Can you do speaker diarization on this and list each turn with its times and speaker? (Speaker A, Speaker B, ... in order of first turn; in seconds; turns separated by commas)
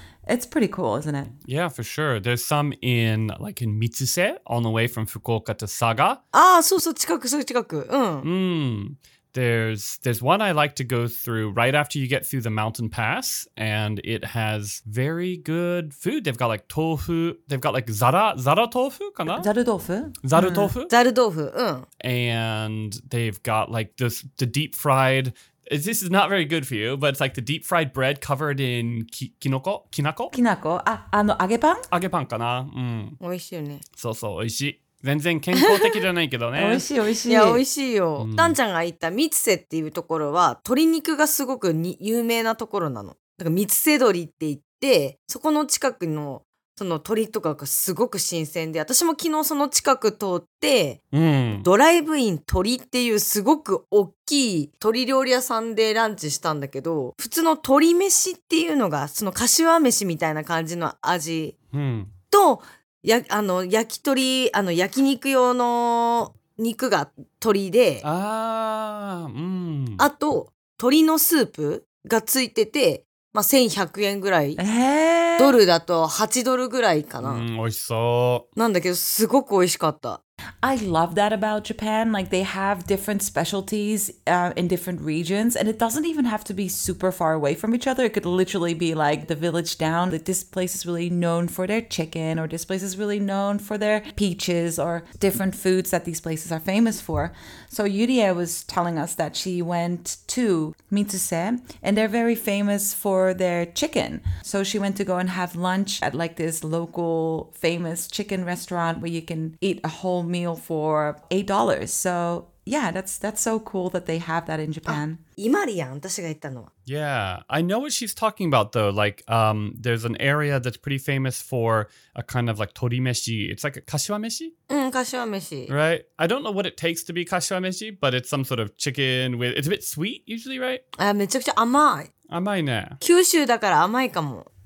Speaker A: 0.3-1.3, Speaker B: 1.4-6.2, Speaker C: 6.3-8.2, Speaker B: 8.2-19.5, Speaker A: 19.3-20.7, Speaker B: 20.2-20.9, Speaker C: 20.9-21.9, Speaker B: 22.0-30.3, Speaker A: 30.3-31.9, Speaker B: 31.9-33.2, Speaker C: 33.2-33.8, Speaker B: 34.0-36.9, Speaker A: 36.5-37.6, Speaker C: 37.2-51.0, Speaker B: 38.2-38.5, Speaker B: 51.1-51.7, Speaker C: 51.6-61.5, Speaker B: 61.7-62.1, Speaker C: 62.3-68.0, Speaker B: 68.0-70.0, Speaker C: 70.0-74.6, Speaker A: 74.6-75.6, Speaker C: 75.4-77.5, Speaker B: 77.2-78.4, Speaker C: 78.5-80.2, Speaker A: 80.6-115.2, Speaker C: 114.8-116.7, Speaker B: 116.9-124.5, Speaker C: 124.7-125.7, Speaker B: 125.7-130.8, Speaker C: 131.0-132.1, Speaker B: 132.3-133.0, Speaker C: 133.0-134.5